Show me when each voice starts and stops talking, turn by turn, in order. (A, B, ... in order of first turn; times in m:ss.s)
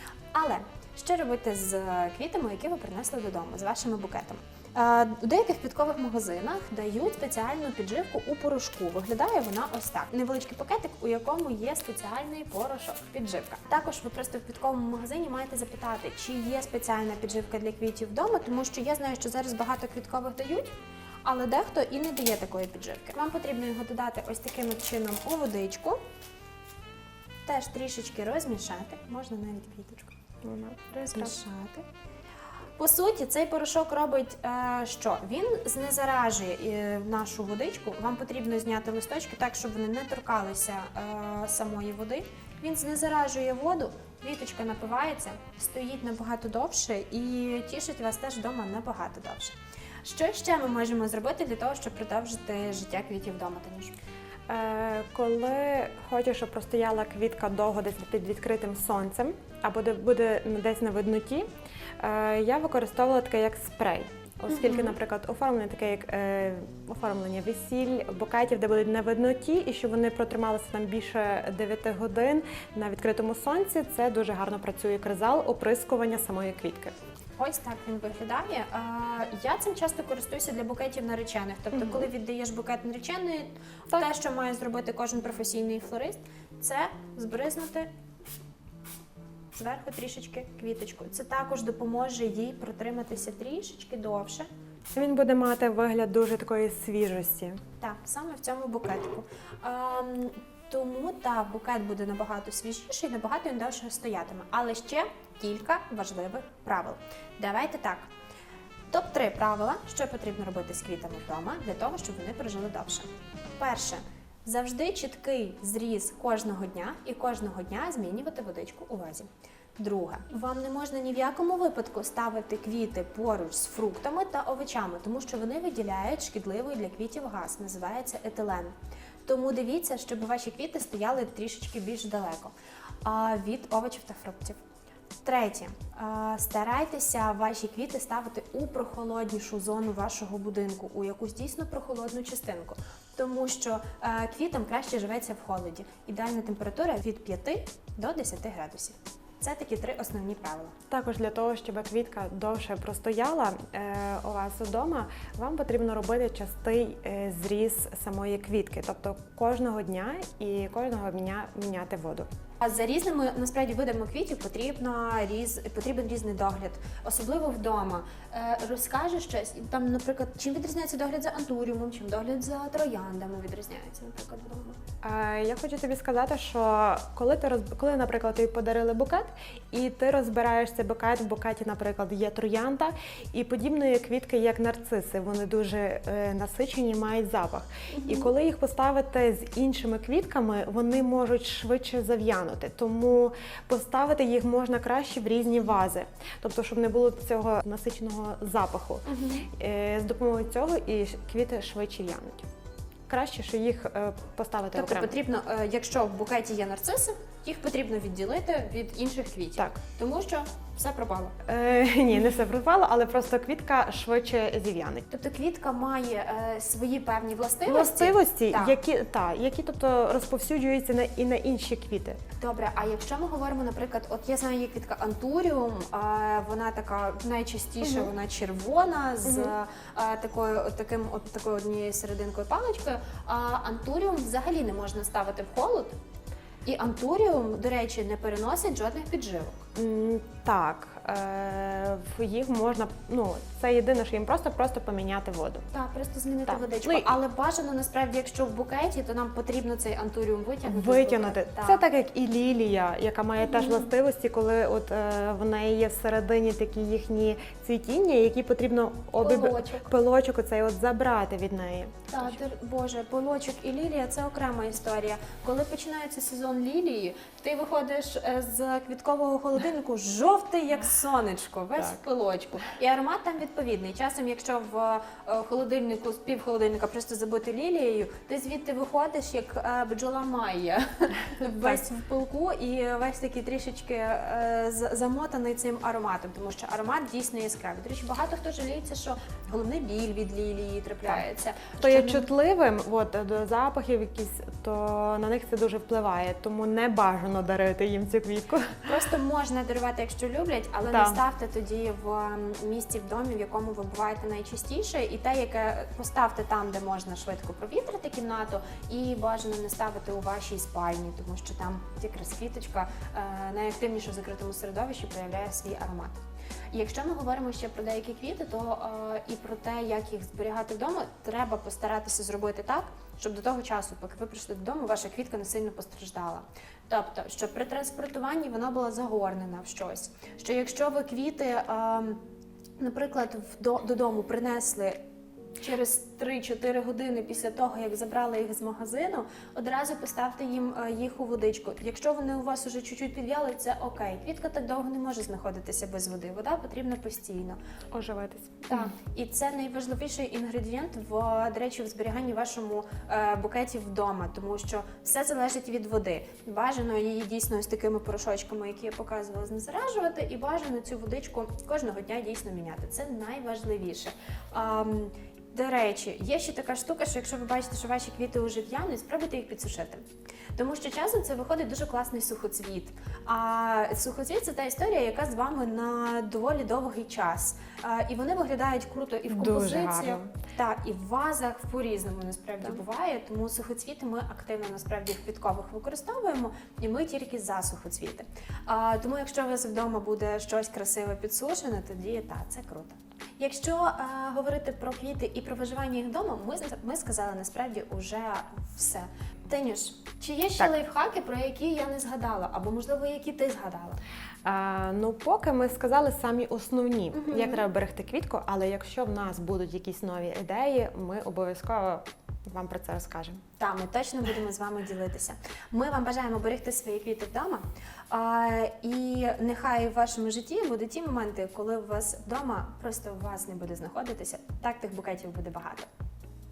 0:00.3-0:26.0 A
0:27.4-0:30.1 A
0:30.4-0:31.3 B
0:30.9-0:31.8 A
0:32.8-0:53.9 A
0:54.5-1:01.5 B
1:02.0-1:16.9 B
1:04.5-1:04.9 A
1:17.4-1:27.9 A
1:21.7-1:22.1 B
1:29.5-1:34.5 A
1:34.9-1:37.6 B
1:37.8-1:48.1 A
1:48.9-1:53.1 A
1:53.6-2:08.7 A
2:09.2-2:14.6 A
2:15.2-2:30.7 A
2:30.9-2:42.3 B
2:42.6-2:54.8 A
2:55.0-3:22.4 B
3:07.9-3:08.3 A
3:19.1-3:19.5 A
3:23.1-3:25.1 B
3:24.7-3:31.4 A
3:31.4-3:35.0 B
3:35.1-3:38.8 A
3:37.6-3:42.2 B
3:42.4-3:56.0 A
3:47.8-3:48.1 B
3:49.2-3:49.5 B
3:56.6-3:59.6 A
3:59.7-4:05.6 B
4:05.7-4:11.8 A
4:06.5-4:07.1 B
4:10.6-4:22.4 B
4:13.4-4:13.9 A
4:19.2-4:19.9 A
4:22.1-4:52.3 A
4:51.8-4:58.9 B
4:58.8-5:16.2 A
5:00.8-5:01.2 B
5:16.7-5:32.2 A
5:32.8-5:35.0 A
5:35.6-5:47.6 A
5:47.9-5:48.9 B
5:48.7-6:44.0 A
6:19.3-6:20.3 B
6:44.4-6:53.4 B
6:47.1-6:47.6 A
6:53.6-7:05.9 A